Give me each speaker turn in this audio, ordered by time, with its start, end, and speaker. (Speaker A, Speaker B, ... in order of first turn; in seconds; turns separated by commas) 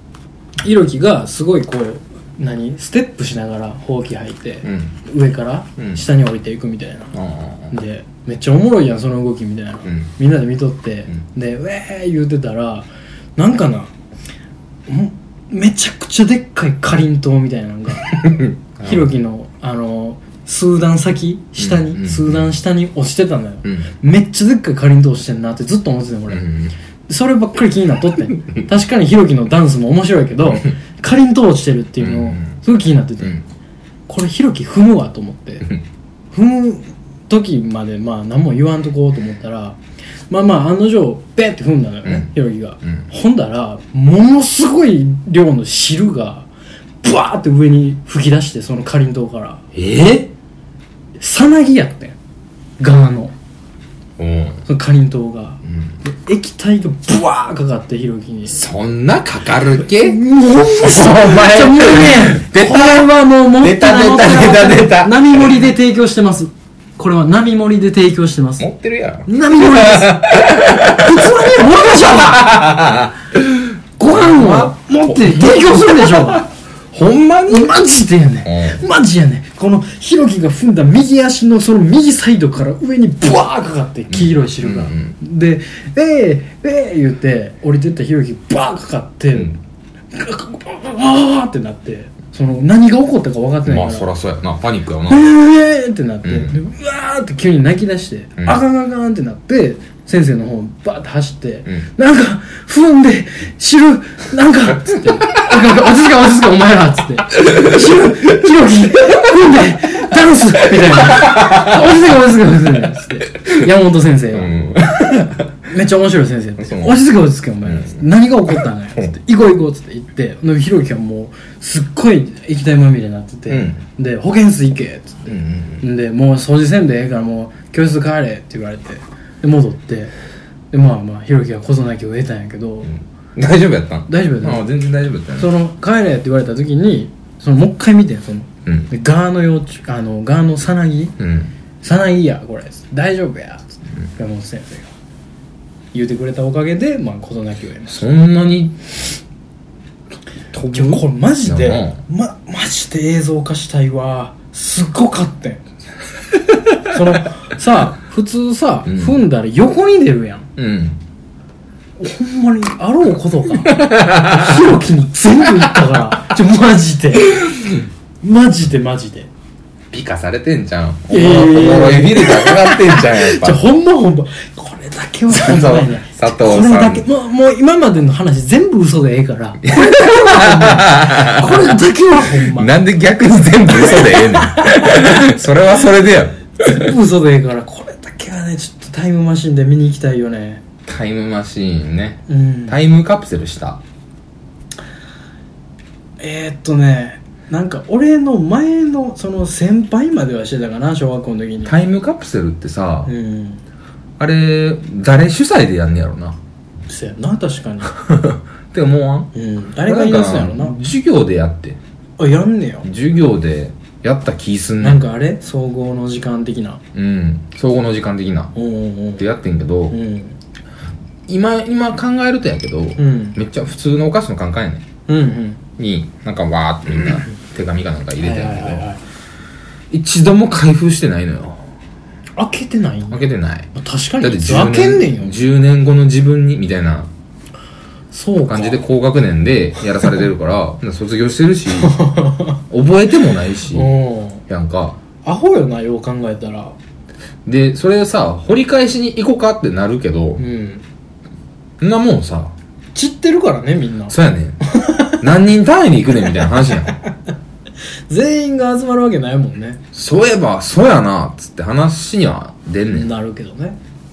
Speaker A: 0.6-7.2, Speaker B: 4.6-4.9, Speaker B: 7.1-7.7, Speaker A: 7.7-13.9, Speaker A: 14.9-18.3, Speaker B: 18.0-19.1, Speaker A: 18.8-26.5, Speaker B: 21.6-22.5, Speaker B: 23.6-23.9, Speaker B: 26.3-26.7, Speaker A: 27.1-33.4, Speaker B: 32.0-32.6, Speaker A: 34.1-35.7, Speaker A: 36.3-46.5, Speaker B: 42.0-42.3, Speaker A: 47.0-49.6, Speaker B: 49.7-50.3, Speaker A: 51.2-52.2, Speaker A: 52.8-53.4, Speaker B: 54.2-54.6, Speaker A: 54.7-58.6, Speaker B: 55.7-56.0, Speaker B: 58.5-60.2, Speaker A: 59.8-68.7, Speaker B: 60.7-65.5, Speaker B: 68.6-77.7, Speaker A: 69.3-72.6, Speaker A: 74.0-76.5, Speaker A: 77.5-89.5, Speaker B: 78.5-78.8, Speaker B: 84.1-85.2, Speaker A: 90.1-94.1, Speaker B: 93.7-95.3, Speaker A: 95.1-114.5, Speaker B: 96.2-96.6, Speaker B: 111.2-111.8, Speaker B: 113.4-113.7, Speaker B: 114.3-115.5, Speaker A: 115.7-130.1, Speaker B: 116.6-117.0, Speaker B: 117.7-118.0, Speaker B: 123.5-123.8, Speaker B: 125.3-125.8, Speaker A: 130.7-132.9, Speaker B: 132.9-135.5, Speaker A: 134.1-134.7, Speaker A: 135.4-141.2, Speaker B: 141.2-141.5, Speaker A: 141.8-144.9, Speaker A: 145.9-148.0, Speaker B: 147.9-148.8, Speaker B: 150.5-152.0, Speaker A: 150.7-155.6, Speaker A: 156.8-160.5, Speaker B: 158.9-159.2, Speaker B: 160.6-161.0, Speaker A: 162.0-167.7, Speaker B: 163.7-164.6, Speaker A: 168.2-169.3, Speaker B: 169.9-173.6, Speaker A: 171.1-182.7, Speaker B: 175.3-177.1, Speaker B: 179.6-181.8, Speaker B: 182.3-186.9, Speaker A: 183.7-185.1, Speaker A: 186.6-190.6, Speaker B: 190.9-193.8, Speaker A: 192.3-192.8, Speaker A: 196.2-201.7, Speaker B: 201.7-203.1, Speaker A: 203.1-203.6, Speaker B: 204.2-206.4, Speaker A: 206.9-207.9, Speaker B: 207.8-209.3, Speaker A: 209.3-210.8, Speaker B: 209.8-211.8, Speaker A: 212.2-212.9, Speaker B: 212.8-215.0, Speaker A: 214.8-216.8, Speaker B: 216.9-218.5, Speaker A: 218.6-219.3, Speaker B: 219.2-220.0, Speaker A: 219.9-220.4, Speaker B: 221.3-224.9, Speaker A: 223.0-223.4, Speaker A: 225.1-225.6, Speaker B: 225.8-228.9, Speaker A: 228.2-229.0, Speaker B: 229.9-231.6, Speaker A: 232.4-235.4, Speaker B: 233.1-237.1, Speaker A: 238.1-238.8, Speaker B: 238.5-242.1, Speaker A: 241.7-242.6, Speaker B: 242.7-243.9, Speaker A: 243.7-244.4, Speaker B: 244.5-245.0, Speaker A: 245.2-246.8, Speaker B: 247.5-250.4, Speaker A: 250.4-250.8, Speaker B: 251.8-252.5, Speaker A: 252.9-254.2, Speaker B: 254.1-257.0, Speaker A: 254.7-255.2, Speaker A: 256.4-257.1, Speaker A: 258.1-259.8, Speaker B: 259.9-263.1, Speaker A: 262.9-263.8